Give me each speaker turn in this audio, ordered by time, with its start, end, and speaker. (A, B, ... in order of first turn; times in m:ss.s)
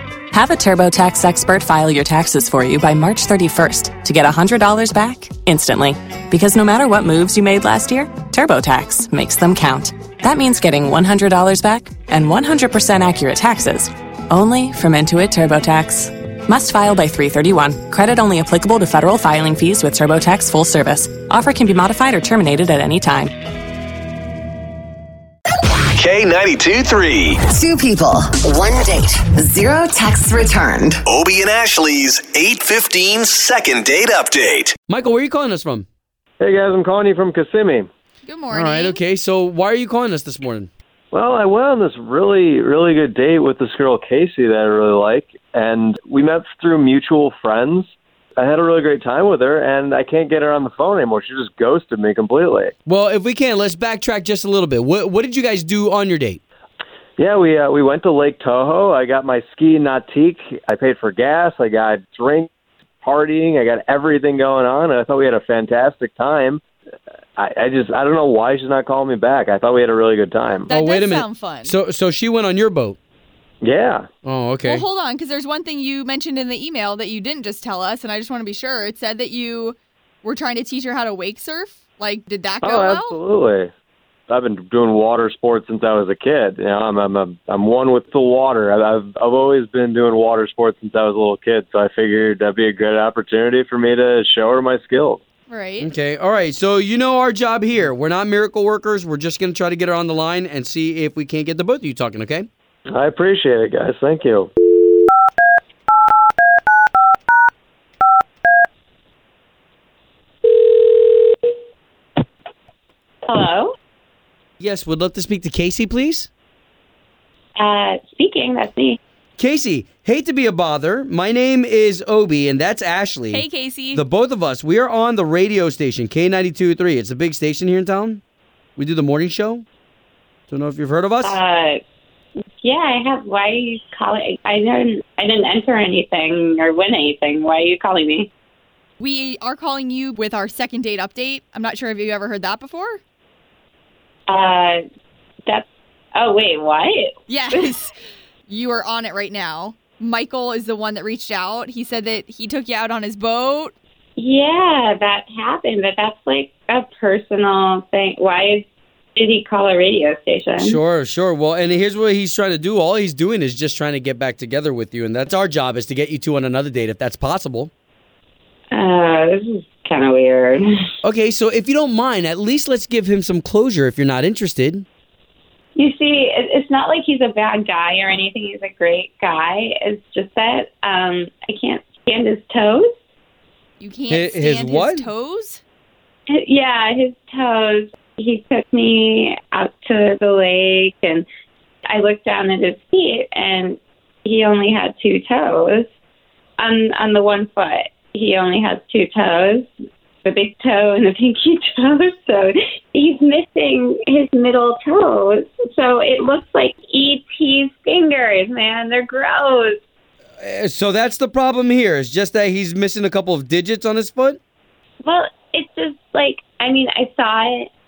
0:00.3-0:23.3 A
0:26.0-0:27.4 B
0:27.5-0:31.0 C
0:31.0-0:34.8 B
0:34.9-0:35.9 D
0:36.4-0:37.9 E
0:38.2-0:39.0 F
0:38.5-0:40.7 D
0:41.1-0:52.7 E
0:52.9-0:56.4 D
0:57.2-1:02.5 E
1:03.0-1:06.6 E
1:07.4-1:10.7 E
1:10.7-1:11.8 F
1:10.7-1:13.0 D
1:13.6-1:14.1 E
1:14.2-1:14.8 D
1:14.6-1:23.2 F
1:22.6-1:23.7 E
1:24.3-1:35.2 E
1:35.5-1:35.9 F
1:35.8-1:42.5 D
1:42.9-1:44.5 E
1:53.3-1:53.8 G
1:54.6-1:56.3 D
1:57.6-1:59.0 G
1:59.4-2:08.2 D
2:03.3-2:04.0 F
2:08.8-2:09.6 D
2:10.5-2:11.4 D
2:11.2-2:11.8 G
2:12.6-2:18.3 G
2:19.0-2:23.0 F
2:24.3-2:24.8 G
2:25.5-2:27.7 G
2:27.3-2:27.9 F
2:28.5-2:33.7 F
2:34.2-2:40.8 G
2:40.6-2:47.7 D
2:48.7-2:50.6 G
2:51.0-2:54.9 D
2:55.8-3:02.9 G
3:03.8-3:05.6 F
3:04.1-3:05.1 D
3:06.3-3:11.2 G
3:11.9-3:15.9 G
3:16.6-3:19.7 G
3:20.2-3:29.8 G
3:30.4-3:34.4 D
3:35.0-3:37.7 G